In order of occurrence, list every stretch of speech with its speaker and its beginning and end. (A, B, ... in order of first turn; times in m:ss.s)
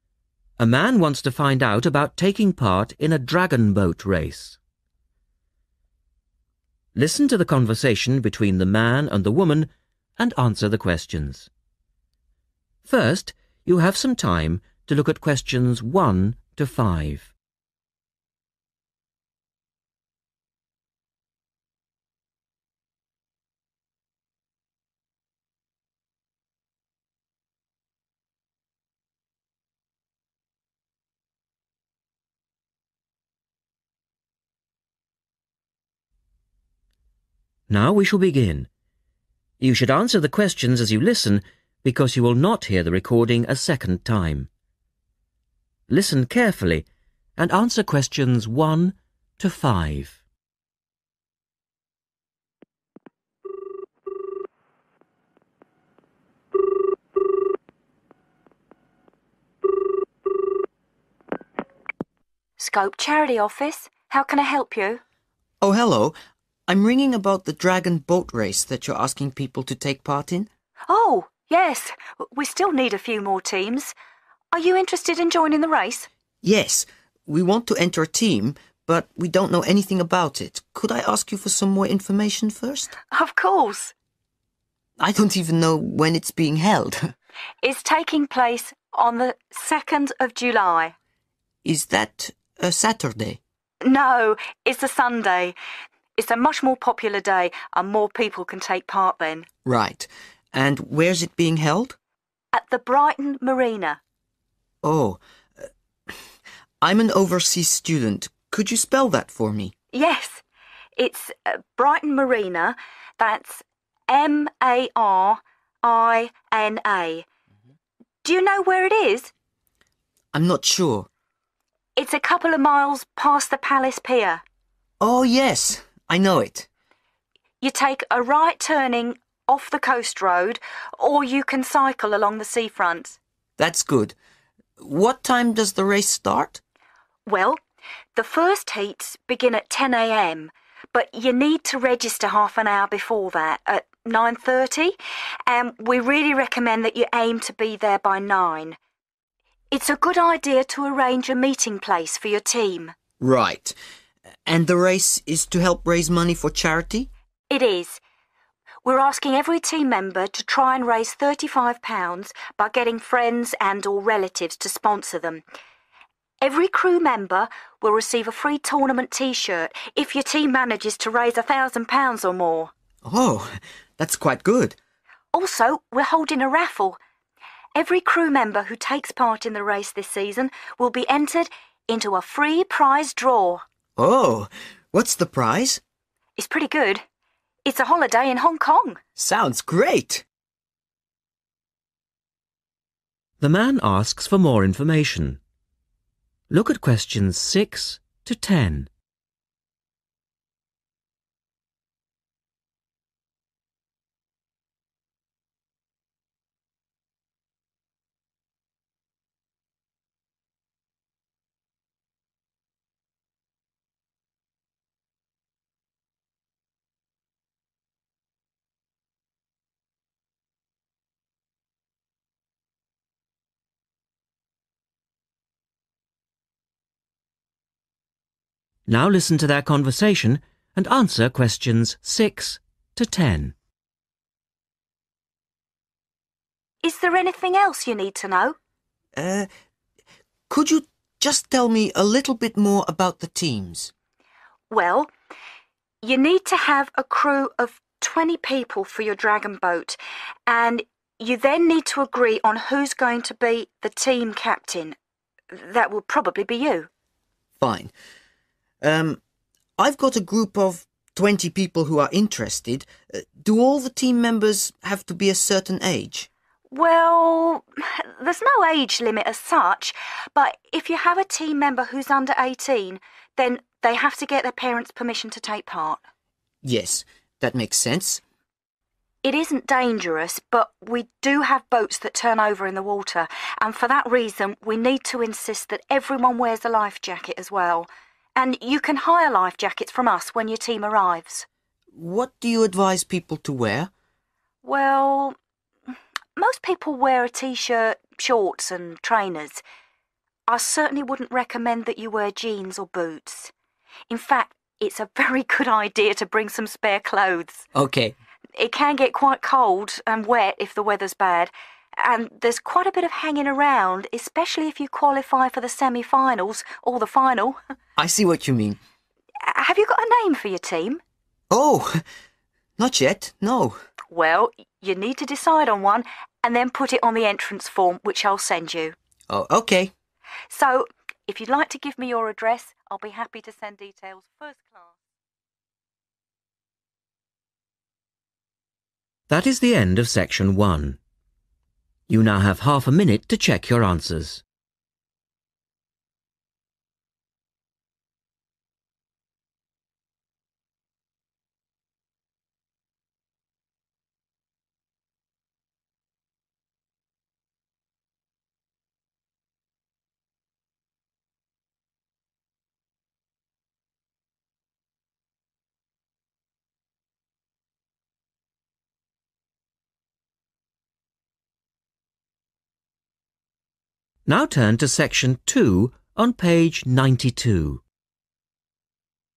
0:00.6-0:04.6 A
0:07.0-0:11.5 A
0:12.8-0:17.3 A
0:37.7-0:38.7 A
0:39.6-0:44.5 A
0:45.9-0:46.9 A
0:47.4-0:50.2 A
1:02.6-1:05.0 B
1:05.6-1:06.2 C
1:06.7-1:10.5 C
1:10.9-1:14.0 B
1:14.5-1:16.1 B
1:16.4-1:22.9 C
1:23.1-1:23.9 B
1:25.0-1:27.1 C
1:27.6-1:30.9 B
1:31.6-1:33.4 C
1:33.8-1:35.6 B
1:36.2-1:39.5 B
1:39.6-1:42.0 C
1:42.5-1:44.0 B
1:44.8-1:45.7 C
1:46.8-1:49.7 C
1:49.9-1:50.4 B
1:51.0-1:57.3 B
1:58.2-1:59.3 B
2:00.3-2:01.1 C
2:02.0-2:04.4 B
2:05.0-2:06.7 C
2:07.6-2:13.2 B
2:13.6-2:14.2 C
2:14.8-2:16.6 C
2:17.3-2:17.6 B
2:18.2-2:25.0 B
2:25.5-2:28.8 B
2:29.7-2:32.9 B
2:33.2-2:33.8 C
2:34.5-2:37.1 C
2:37.5-2:38.0 B
2:38.8-2:45.4 B
2:46.4-2:52.7 B
2:53.0-2:54.8 C
2:55.3-2:57.0 B
2:57.8-3:03.6 B
3:04.0-3:05.8 C
3:06.4-3:07.0 B
3:07.6-3:09.0 B
3:09.2-3:10.2 C
3:13.4-3:15.4 A
3:16.5-3:18.9 A
3:48.9-3:53.6 A
3:56.8-3:58.6 B
3:59.2-3:59.5 C
4:00.5-4:03.9 C
4:04.7-4:05.1 B
4:06.0-4:15.0 B
4:15.5-4:16.9 B
4:17.6-4:17.9 C
4:18.8-4:19.2 C
4:19.8-4:26.3 C
4:26.7-4:36.0 B
4:36.6-4:38.2 C
4:39.2-4:51.5 B
4:52.0-4:53.9 C
4:54.6-4:55.4 B
4:56.4-4:59.6 B
5:00.5-5:03.5 B
5:04.1-5:07.7 B
5:07.7-5:08.2 C
5:08.6-5:17.6 B
5:18.0-5:18.8 C
5:19.4-5:21.0 B
5:21.5-5:22.0 C
5:22.8-5:23.8 C
5:24.1-5:29.0 B
5:29.3-5:29.9 C
5:30.5-5:35.0 B
5:39.3-5:41.0 A
5:42.1-5:44.4 A
6:14.3-6:17.8 A